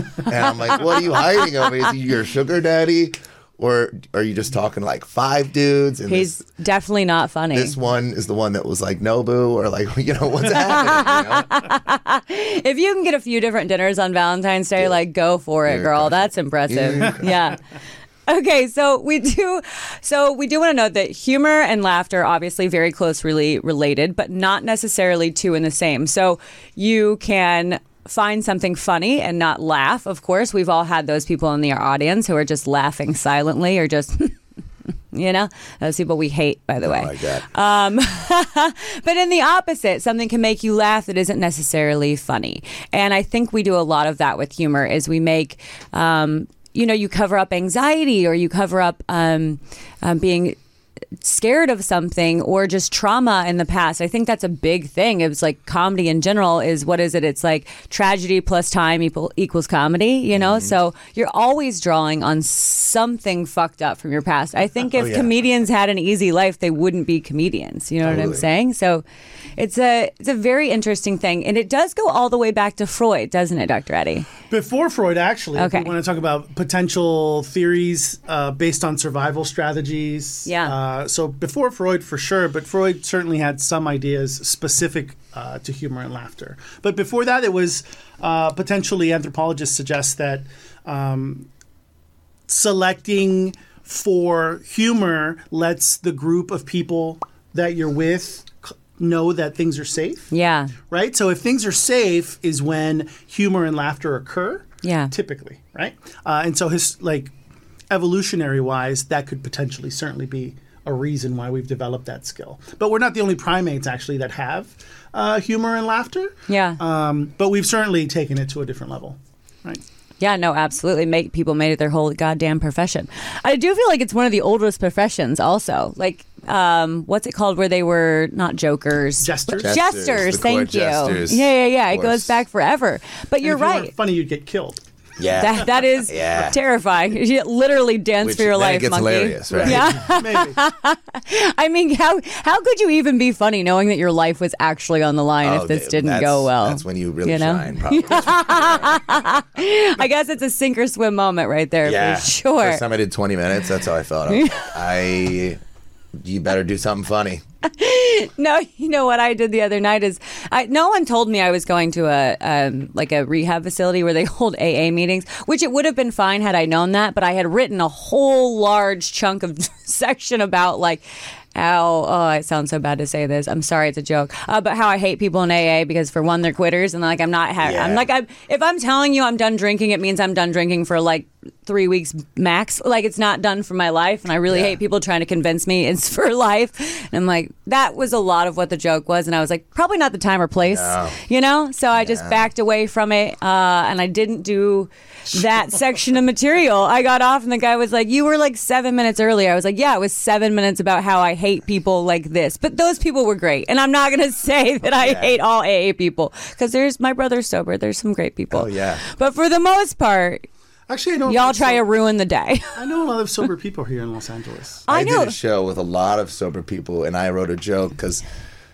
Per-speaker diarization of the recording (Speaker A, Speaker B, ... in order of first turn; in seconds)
Speaker A: 0.2-6.4, 7.5-11.6, 15.7-17.4, 36.8-37.5, 60.3-60.7, 64.9-65.3, 68.0-68.5, 129.6-132.3, 135.2-136.6, 138.2-140.0, 145.4-149.0, 151.8-155.6, 156.2-157.4, 177.6-178.1, 184.5-184.8, 190.6-191.2, 191.9-192.5, 204.9-205.4, 208.5-209.0, 214.9-218.2
Speaker B: 6.1-7.7, 10.5-17.6, 18.3-34.4, 35.1-50.6, 51.2-69.0, 69.6-74.3, 75.5-75.9, 80.5-80.7, 100.3-100.7, 104.8-105.1, 116.5-116.8, 120.2-133.9, 135.4-152.8, 154.3-154.7, 157.6-171.0, 171.5-210.4, 211.3-212.8, 214.9-215.3
Speaker C: 74.5-91.5, 92.5-100.3, 100.9-107.3, 107.9-119.8, 129.2-129.8, 133.4-134.8, 139.5-140.6, 210.9-211.8, 212.7-214.8